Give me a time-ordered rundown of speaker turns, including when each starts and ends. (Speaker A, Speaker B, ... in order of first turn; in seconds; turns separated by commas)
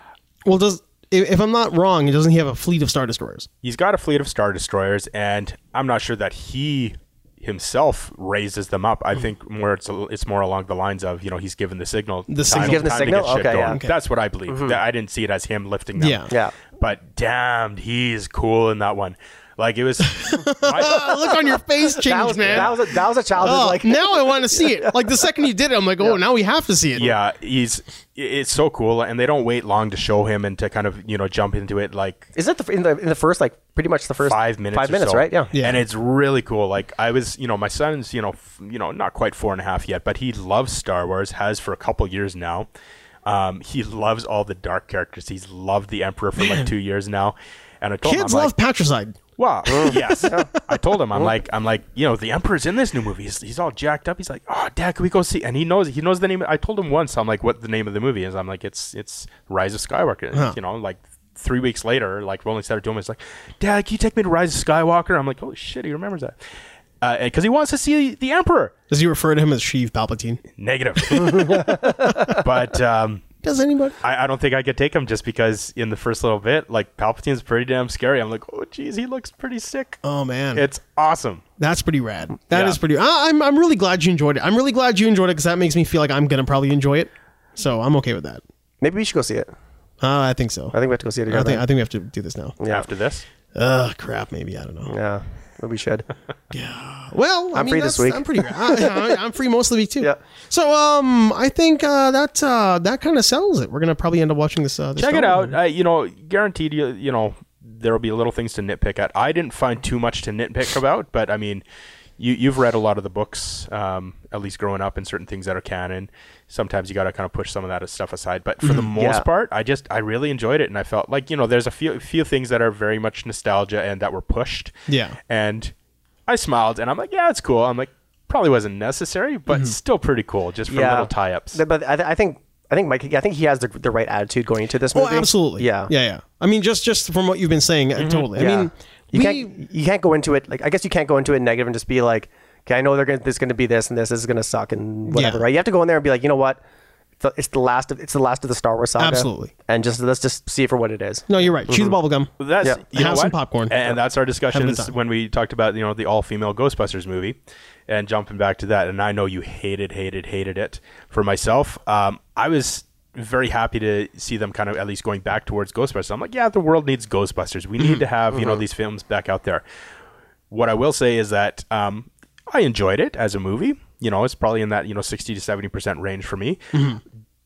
Speaker A: 0.4-3.5, Speaker B: 3.6-21.3, Speaker A: 12.3-13.9, Speaker C: 12.5-13.8, Speaker C: 14.5-14.8, Speaker A: 16.0-16.3, Speaker A: 20.2-22.8, Speaker C: 22.0-24.9, Speaker B: 22.4-22.7, Speaker A: 23.4-27.1, Speaker B: 26.9-32.3, Speaker C: 32.3-35.5, Speaker B: 34.2-42.7, Speaker A: 35.5-35.8, Speaker B: 43.2-48.5, Speaker A: 46.4-46.7, Speaker A: 48.0-49.2, Speaker B: 49.4-66.3, Speaker C: 49.7-50.5, Speaker A: 49.7-50.6, Speaker B: 67.0-68.7, Speaker A: 68.9-70.4, Speaker B: 70.6-73.2, Speaker A: 71.0-72.4, Speaker C: 71.5-72.4, Speaker A: 73.4-74.0, Speaker B: 74.0-80.0, Speaker A: 80.0-80.7, Speaker B: 80.5-81.4, Speaker A: 81.6-88.4, Speaker B: 82.5-82.8, Speaker C: 88.8-89.5, Speaker A: 90.0-90.7, Speaker C: 90.7-91.6, Speaker A: 91.3-92.6, Speaker C: 92.6-92.9, Speaker B: 92.7-93.2, Speaker A: 93.5-94.9, Speaker C: 94.9-96.0, Speaker A: 96.5-105.5, Speaker C: 97.5-99.1, Speaker B: 105.0-111.6, Speaker B: 112.2-124.7, Speaker A: 118.6-118.9, Speaker C: 118.9-119.2, Speaker A: 124.9-125.2, Speaker B: 125.3-125.7, Speaker B: 126.3-131.6, Speaker A: 129.5-129.7, Speaker C: 130.7-135.9, Speaker A: 134.9-139.5, Speaker B: 138.0-138.3, Speaker C: 138.3-146.6, Speaker A: 145.1-145.4, Speaker C: 147.2-151.9, Speaker A: 149.0-149.5, Speaker A: 151.3-152.3, Speaker B: 152.4-157.4, Speaker A: 152.9-153.9, Speaker A: 154.5-154.9, Speaker B: 157.9-169.6, Speaker B: 170.5-176.7, Speaker A: 176.7-177.0